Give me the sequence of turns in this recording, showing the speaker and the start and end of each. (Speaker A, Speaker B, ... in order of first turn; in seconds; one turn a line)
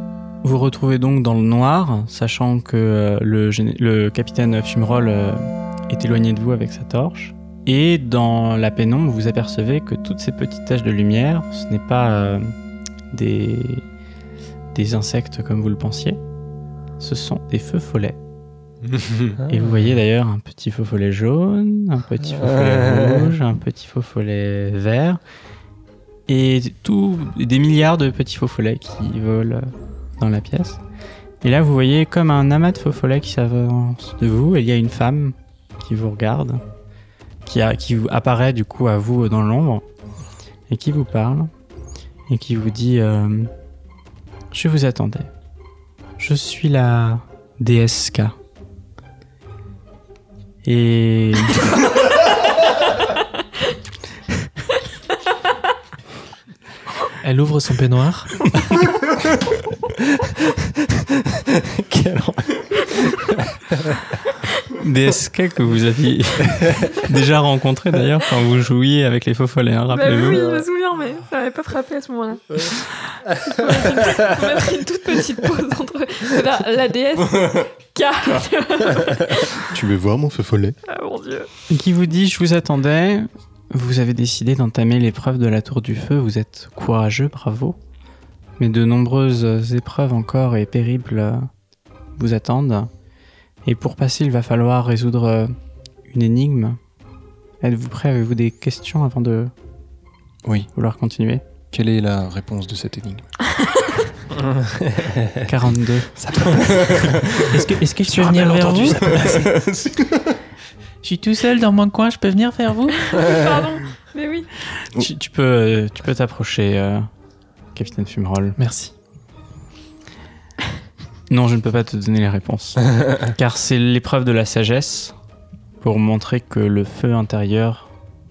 Speaker A: 0.4-12.5
Speaker A: 13.1-13.8
Speaker A: 14.7-16.2
Speaker A: 17.0-18.2
Speaker B: 19.4-19.9
Speaker A: 19.5-25.2
Speaker B: 22.2-23.3
Speaker A: 26.3-30.8
Speaker A: 31.4-36.6
Speaker A: 37.4-39.8
Speaker A: 40.7-41.5
Speaker A: 42.3-43.5
Speaker A: 44.5-45.3
Speaker A: 46.2-48.4
Speaker A: 50.6-51.7
Speaker C: 57.2-58.5
Speaker B: 60.2-64.0
Speaker A: 64.8-70.5
Speaker D: 69.9-72.8
Speaker B: 70.3-70.6
Speaker D: 73.4-79.6
Speaker E: 79.7-80.8
Speaker D: 80.9-81.5
Speaker A: 81.7-87.8
Speaker A: 88.6-91.5
Speaker A: 92.2-92.9
Speaker A: 93.6-95.5
Speaker A: 96.1-96.8
Speaker A: 97.6-99.5
Speaker A: 100.7-101.4
Speaker E: 101.7-103.2
Speaker B: 104.3-105.4
Speaker A: 105.4-106.1
Speaker B: 106.2-107.4
Speaker E: 106.6-107.4
Speaker C: 107.5-109.5
Speaker E: 108.1-110.3
Speaker B: 108.3-109.1
Speaker C: 111.0-113.2
Speaker D: 113.0-114.5
Speaker A: 114.9-117.1
Speaker A: 117.7-118.6
Speaker C: 118.6-118.9
Speaker A: 121.3-125.1
Speaker A: 125.8-127.9